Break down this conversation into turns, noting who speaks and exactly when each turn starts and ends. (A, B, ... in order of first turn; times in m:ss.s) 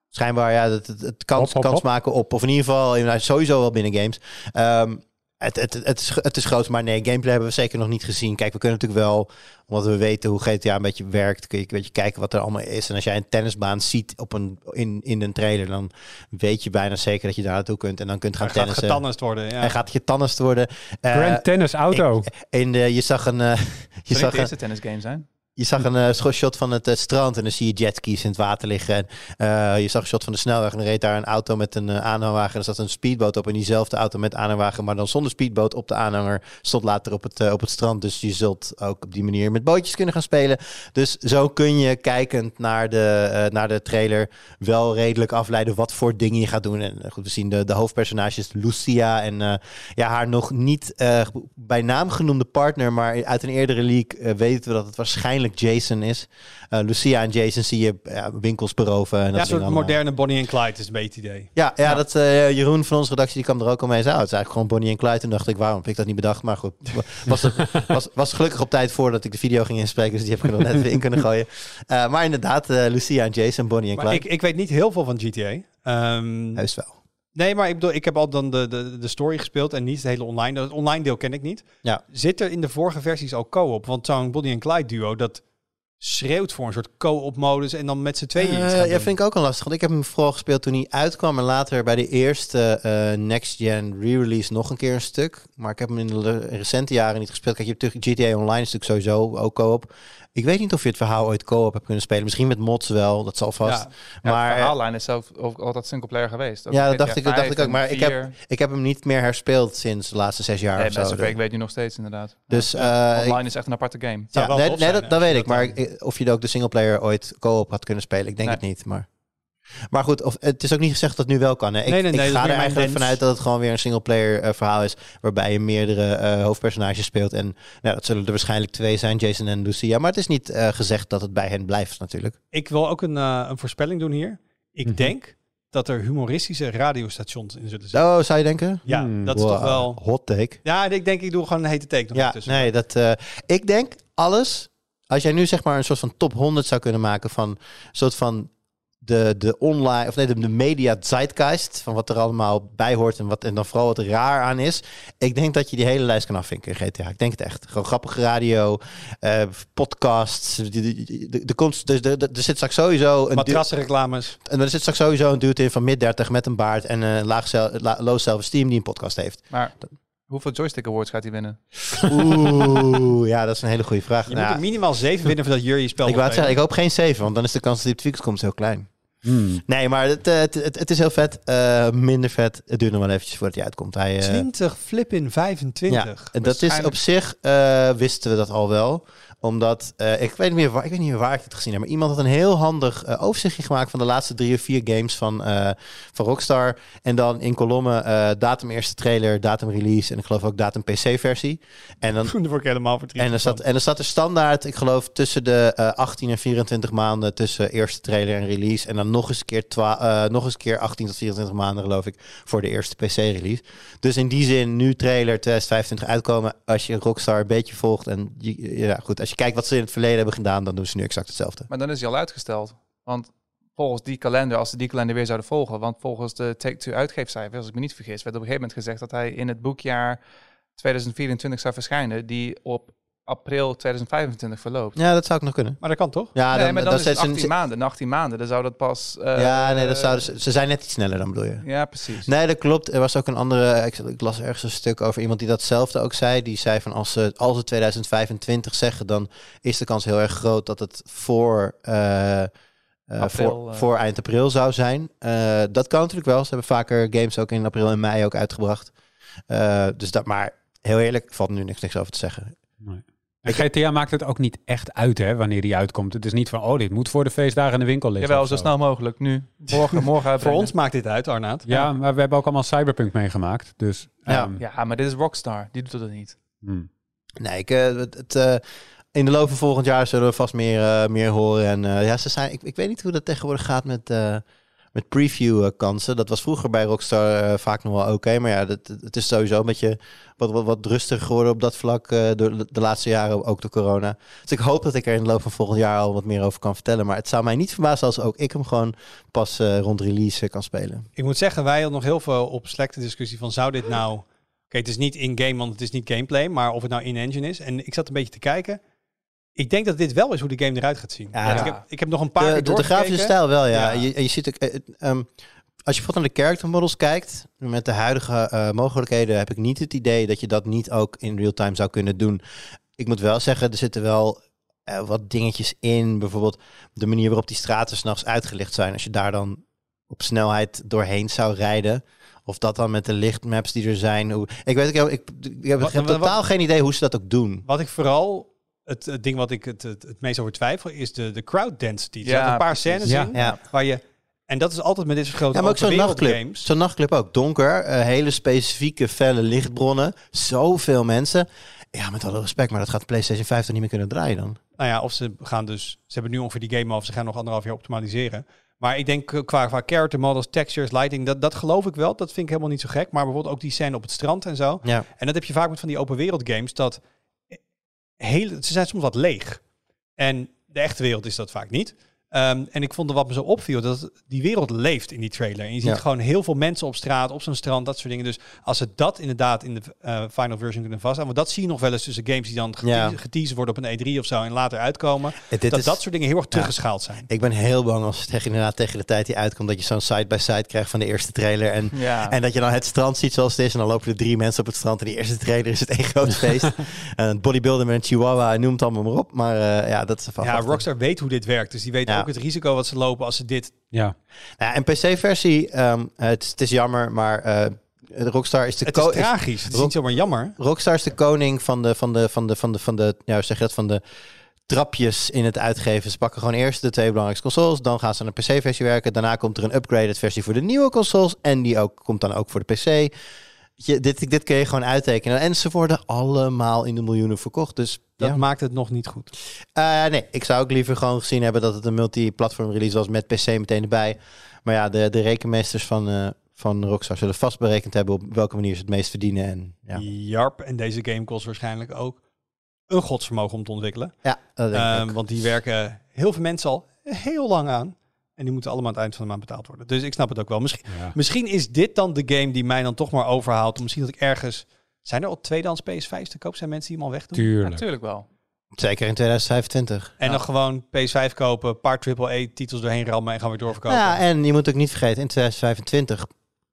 0:00.1-0:19.0 A
0:01.4-0:01.8 B
0:18.4-0:19.7 C
0:19.6-0:24.5 A
0:21.1-0:22.3 B
0:24.1-0:25.2 D
0:25.6-1:00.0 A
0:59.3-1:01.5 C
1:01.5-1:14.2 A
1:14.0-1:16.6 C
1:16.6-1:16.9 A
1:17.3-1:25.4 C
1:26.0-1:29.1 C
1:28.4-1:44.7 A
1:43.6-1:43.9 C
1:44.2-1:48.4 D
1:46.7-1:51.4 A
1:50.8-1:54.3 D
1:52.5-1:53.4 A
1:54.3-1:55.7 C
1:54.3-1:59.1 A
1:59.9-2:12.4 A
2:01.9-2:03.2 C
2:12.5-2:18.0 C
2:14.9-2:15.1 B
2:17.9-2:20.6 A
2:18.8-2:20.0 C
2:18.9-2:19.3 B
2:20.6-2:22.7 C
2:22.1-2:28.5 A
2:29.0-2:43.7 A
2:43.3-2:44.4 C
2:44.4-2:49.5 A
2:50.3-2:52.0 D
2:52.0-2:54.6 A
2:54.3-2:56.5 C
2:56.0-2:58.9 A
2:59.2-2:59.6 B
2:59.6-3:04.4 A
3:04.2-3:06.3 C
3:05.9-3:22.3 A
3:06.4-3:07.0 D
3:22.2-3:23.6 C
3:23.2-3:41.7 A
3:41.7-3:50.2 D
3:50.8-3:55.0 D
3:55.0-3:57.5 A
3:55.8-3:56.3 C
3:56.5-4:00.2 D
3:59.3-4:01.6 A
4:01.6-4:02.3 D
4:02.2-4:12.5 A
4:13.1-4:18.9 A
4:13.2-4:13.9 D
4:19.5-4:22.6 A
4:22.8-4:28.7 B
4:28.2-4:30.7 D
4:29.7-4:31.7 C
4:31.6-4:34.6 B
4:34.6-4:36.4 D
4:36.6-4:36.9 B
4:37.4-5:01.1 A
5:01.2-5:08.8 C
5:09.6-5:14.1 C
5:11.3-5:11.8 A
5:11.4-5:11.8 D
5:12.4-5:15.3 A
5:15.8-5:22.4 A
5:23.0-5:37.6 A
5:35.8-5:36.4 C
5:37.6-5:46.6 C
5:42.2-5:43.6 D
5:45.5-5:54.6 A
5:54.8-6:07.6 C
6:08.2-6:09.6 C
6:10.2-6:27.3 C
6:22.8-6:23.1 A
6:25.5-6:26.0 A
6:27.3-6:40.8 A
6:31.9-6:32.4 D
6:40.4-6:43.8 C
6:44.6-6:49.9 A
6:48.8-6:50.6 C
6:50.6-6:54.0 A
6:54.7-7:03.1 A
7:03.8-7:08.4 A
7:08.2-7:09.3 C
7:09.7-7:20.0 A
7:19.9-7:22.2 C
7:22.9-7:24.1 C
7:24.2-7:25.2 A
7:24.7-7:37.4 C
7:37.3-7:37.8 B
7:37.6-7:38.3 D
7:38.8-7:40.1 A
7:40.2-7:44.2 C
7:43.9-7:46.3 A